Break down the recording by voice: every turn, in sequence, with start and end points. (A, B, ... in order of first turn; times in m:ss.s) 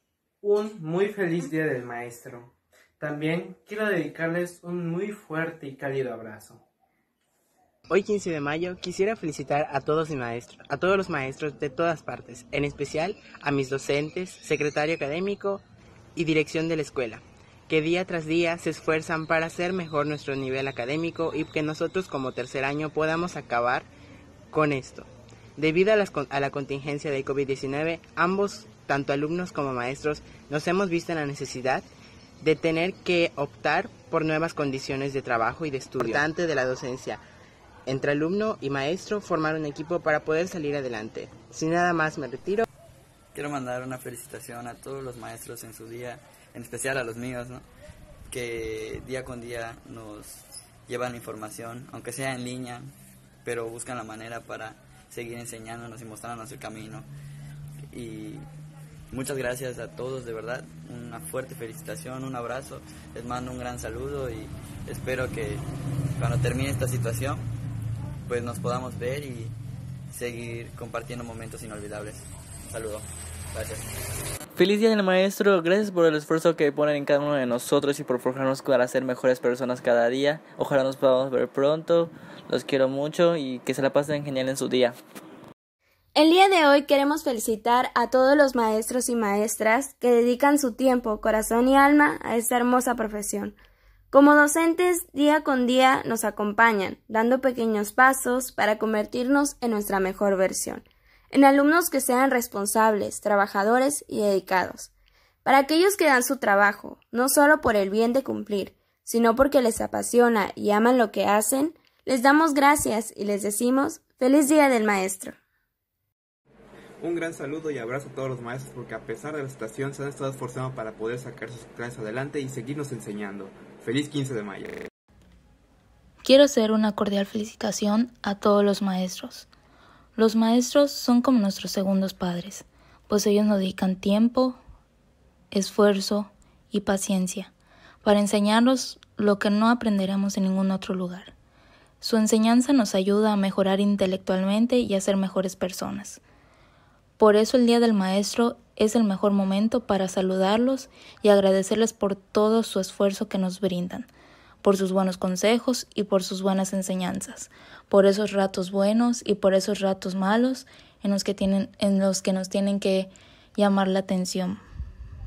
0:00.4-0:06.6 A
0:07.9-0:15.6 B
0:16.2-0:23.9 B
0:24.5-0:31.9 B
0:32.4-0:37.2 B
0:37.9-0:42.6 B
0:43.3-0:47.6 C
0:48.3-0:52.9 C
0:53.4-0:57.1 C
0:57.9-0:58.4 C
0:59.1-1:05.6 C
1:06.2-1:07.5 C
1:08.3-1:09.5 C
1:10.1-1:13.8 C
1:14.6-1:25.0 D
1:26.2-1:33.5 E
1:34.1-1:44.9 E
1:45.4-1:55.3 E
1:57.0-2:04.8 F
2:06.2-2:09.5 G
2:10.2-2:14.6 G
2:15.5-2:17.5 G
2:18.0-2:21.3 G
2:22.0-2:26.2 G
2:27.2-2:34.1 G
2:34.6-2:44.6 G